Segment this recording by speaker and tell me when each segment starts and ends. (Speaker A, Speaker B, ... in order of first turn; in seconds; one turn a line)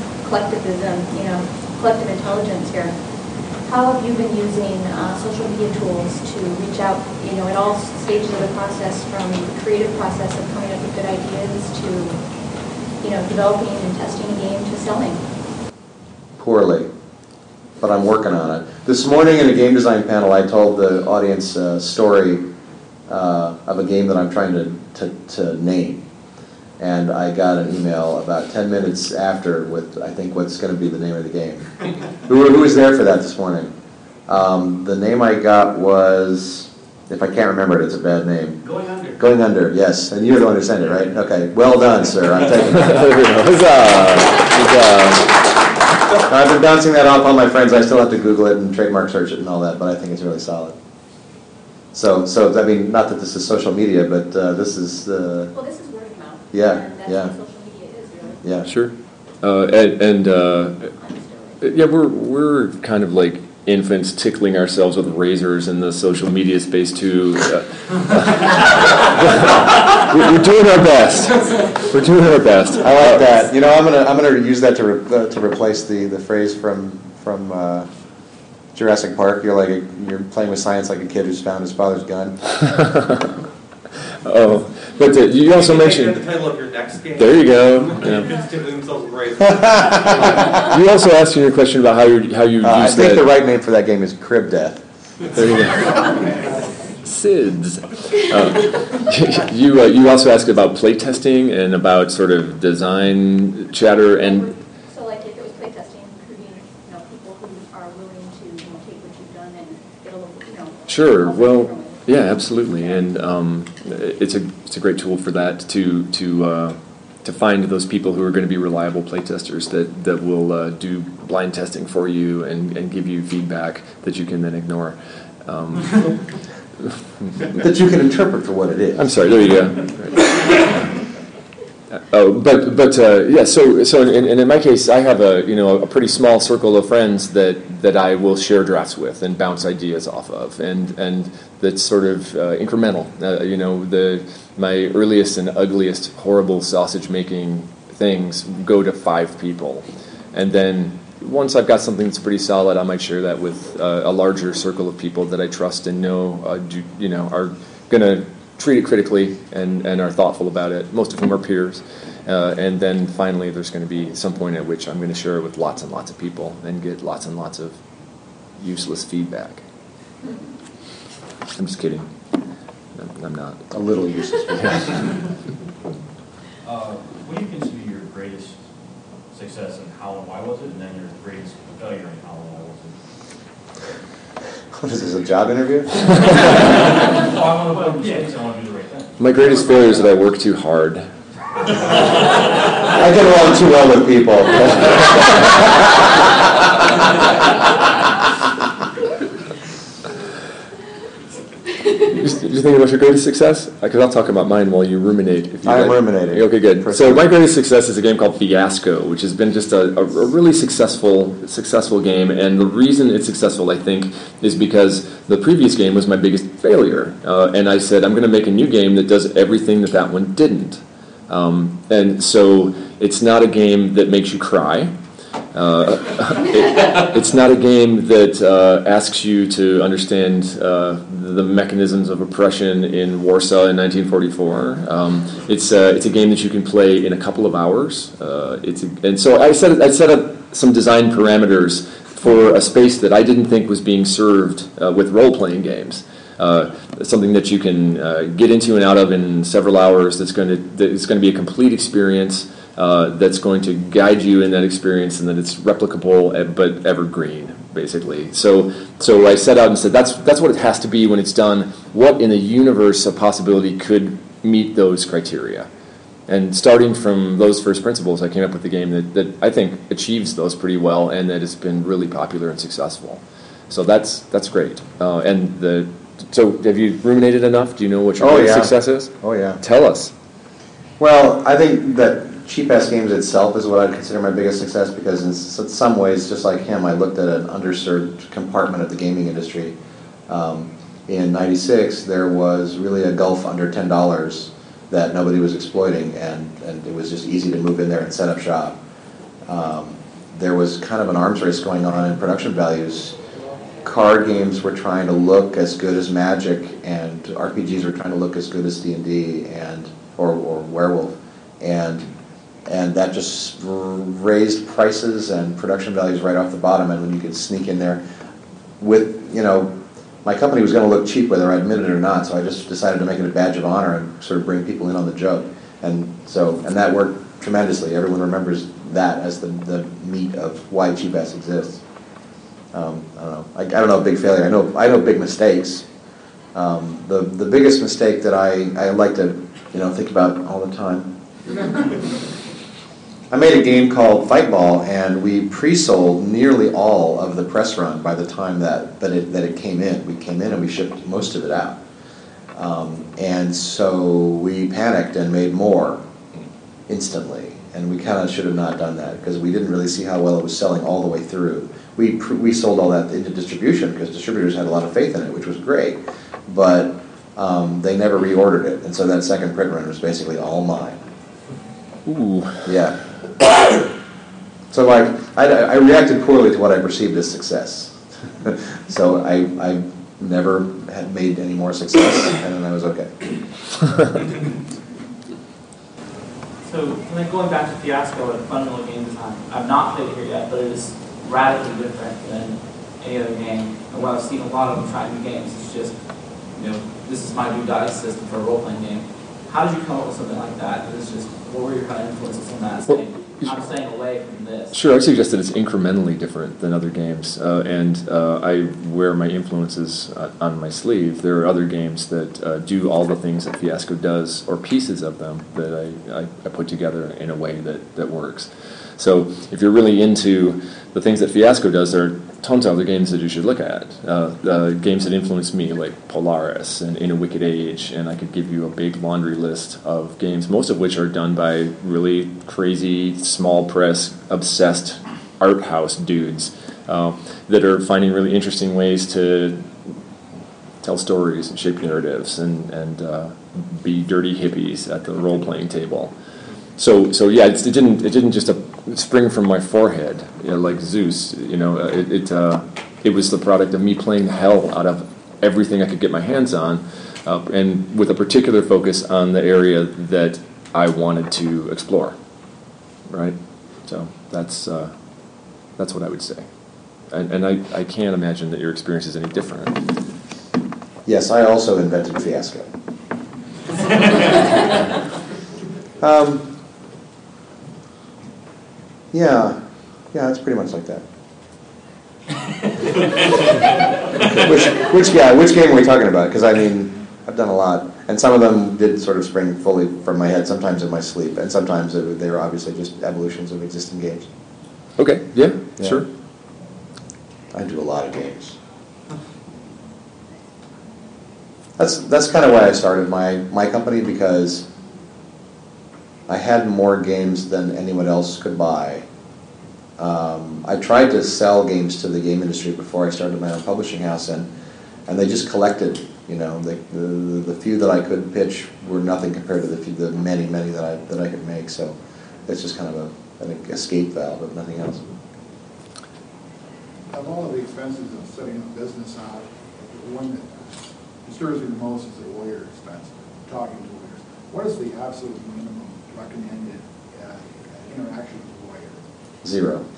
Speaker A: 0.2-3.0
Speaker A: 3.6-12.2
Speaker A: 13.0-15.2
Speaker B: 16.4-16.9
Speaker B: 17.8-22.4
Speaker B: 23.1-26.1
Speaker B: 26.8-33.7
Speaker B: 34.3-38.6
Speaker B: 39.2-43.1
Speaker C: 42.7-45.3
Speaker B: 46.2-50.8
Speaker B: 51.9-55.5
Speaker A: 55.5-58.4
Speaker B: 56.5-57.4
Speaker B: 58.4-58.7
Speaker C: 58.7-60.9
Speaker A: 61.0-61.6
Speaker C: 61.6-73.5
Speaker B: 72.8-77.9
Speaker B: 78.7-82.4
Speaker C: 82.6-83.4
Speaker C: 84.2-86.2
Speaker D: 85.5-90.6
Speaker C: 87.1-88.3
Speaker B: 89.4-90.5
Speaker C: 90.5-93.3
Speaker B: 92.6-94.8
Speaker C: 95.3-96.2
Speaker C: 97.0-104.5
Speaker A: 104.2-113.1
Speaker C: 110.9-126.3
Speaker C: 126.8-127.4
Speaker B: 127.5-129.1
Speaker C: 129.0-130.3
Speaker C: 132.0-167.8
Speaker C: 168.6-169.6
Speaker C: 171.5-172.1
Speaker C: 172.9-173.7
Speaker B: 173.7-175.1
Speaker C: 174.6-174.8
Speaker E: 176.6-178.6
Speaker E: 179.3-183.0
Speaker B: 184.7-186.5
Speaker E: 186.4-189.1
Speaker C: 189.2-191.1
Speaker B: 192.8-196.2
Speaker C: 202.1-224.9
Speaker B: 205.6-207.3
Speaker C: 225.5-265.7
Speaker C: 266.3-280.1
Speaker B: 278.2-279.6
Speaker B: 281.0-289.8
Speaker B: 290.3-298.8
Speaker B: 299.5-303.2
Speaker B: 303.8-312.1
Speaker B: 312.7-318.0
Speaker B: 318.8-331.8
Speaker B: 332.7-335.9
Speaker B: 336.5-341.1
Speaker B: 343.3-351.8
Speaker B: 352.5-356.0
Speaker B: 356.9-371.0
Speaker C: 372.1-372.7
Speaker B: 372.6-373.0
Speaker B: 374.7-383.1
Speaker F: 386.6-404.8
Speaker C: 402.9-403.5
Speaker C: 404.7-439.9
Speaker C: 440.8-446.1
Speaker C: 446.8-462.2
Speaker C: 463.1-464.9
Speaker C: 465.7-469.9
Speaker B: 471.1-472.7
Speaker B: 476.0-476.5
Speaker B: 479.1-479.6
Speaker B: 480.1-481.1
Speaker B: 484.2-494.3
Speaker C: 495.0-496.1
Speaker B: 495.8-496.0
Speaker B: 497.5-498.6
Speaker B: 501.8-504.7
Speaker B: 506.3-509.1
Speaker B: 510.0-514.5
Speaker B: 515.1-525.1
Speaker G: 527.1-539.1
Speaker B: 539.4-539.9